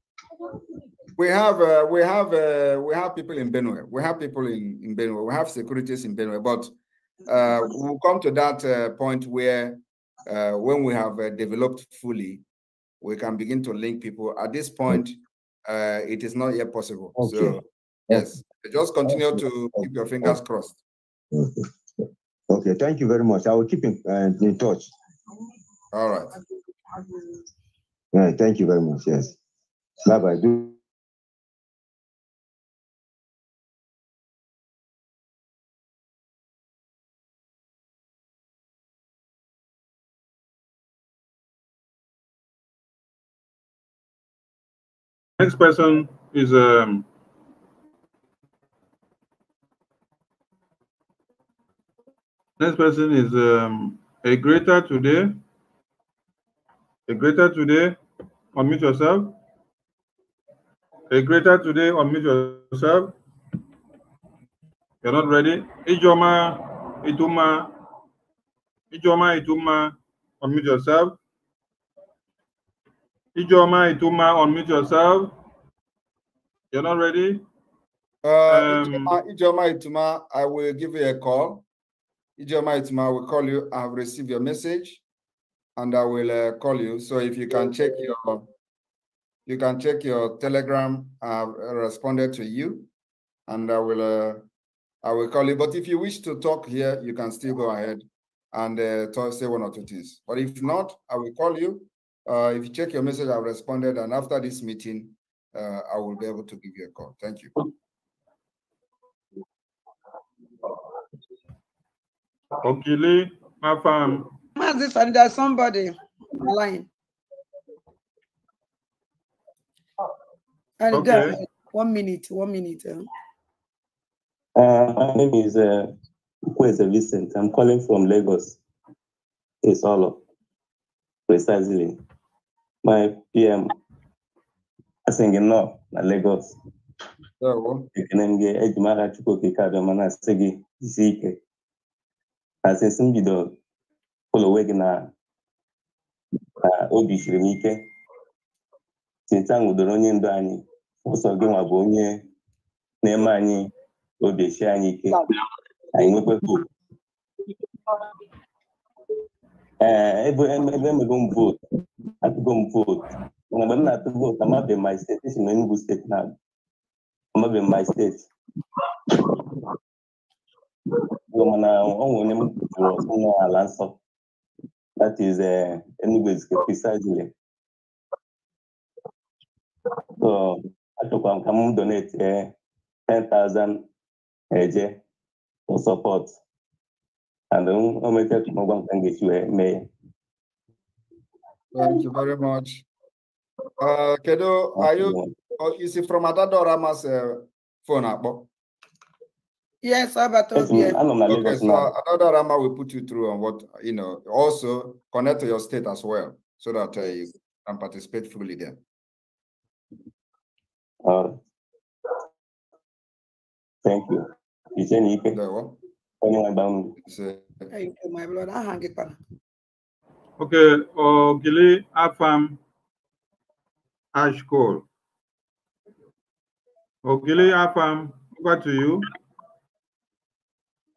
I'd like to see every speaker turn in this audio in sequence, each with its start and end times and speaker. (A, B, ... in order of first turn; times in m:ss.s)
0:01.2-0:06.7 A
0:07.2-0:12.4 A
0:13.0-0:20.8 A
0:17.2-0:18.3 B
0:19.0-0:20.4 B
0:21.3-0:21.6 B
0:22.5-0:24.9 B
0:25.9-0:26.3 A
0:28.1-0:29.3 B
0:30.0-0:30.8 B
0:45.4-0:47.1 C
0:52.6-0:55.4 C
0:57.1-0:58.0 C
0:58.5-0:59.4 C
1:01.1-1:03.1 C
1:05.0-1:07.7 C
1:08.9-1:11.2 C
1:13.3-1:15.3 C
1:16.7-1:17.4 C
1:18.2-1:21.6 A
1:18.5-1:19.1 C
1:22.4-1:25.0 A
1:25.8-1:28.4 A
1:29.5-1:32.9 A
1:33.5-1:34.4 A
1:35.0-1:47.6 A
1:52.6-1:54.3 C
1:54.6-1:56.9 D
2:00.8-2:03.0 D
2:00.9-2:01.4 C
2:04.6-2:05.9 E
2:06.6-2:08.6 E
2:09.6-2:10.2 E
2:11.3-2:12.0 E
2:12.8-2:13.7 E
2:15.1-2:16.6 E
2:17.4-2:17.9 A
2:18.0-2:21.4 E
2:22.6-2:23.5 E
2:24.3-2:25.1 E
2:26.7-2:27.8 E
2:29.3-2:32.1 E
2:33.0-2:33.7 E
2:34.2-2:35.2 E
2:35.9-2:36.6 E
2:39.8-2:41.6 E
2:42.2-2:46.3 E
2:47.4-2:48.2 E
2:51.3-2:54.0 E
2:55.0-2:57.3 E
3:00.2-3:02.5 E
3:03.1-3:03.8 E
3:04.5-3:05.0 E
3:05.7-3:06.3 E
3:07.5-3:09.9 E
3:11.7-3:12.8 A
3:13.8-3:18.5 A
3:14.8-3:15.3 E
3:19.8-3:21.0 D
3:20.5-3:21.9 E
3:21.3-3:28.8 A
3:31.0-3:31.3 E
3:33.8-3:34.2 E
3:34.8-3:35.4 E
3:35.3-3:35.8 A
3:36.2-3:36.9 E
3:37.0-3:37.7 A
3:37.7-3:39.2 D
3:40.4-3:42.6 C
3:44.1-3:44.8 C
3:47.0-3:49.1 C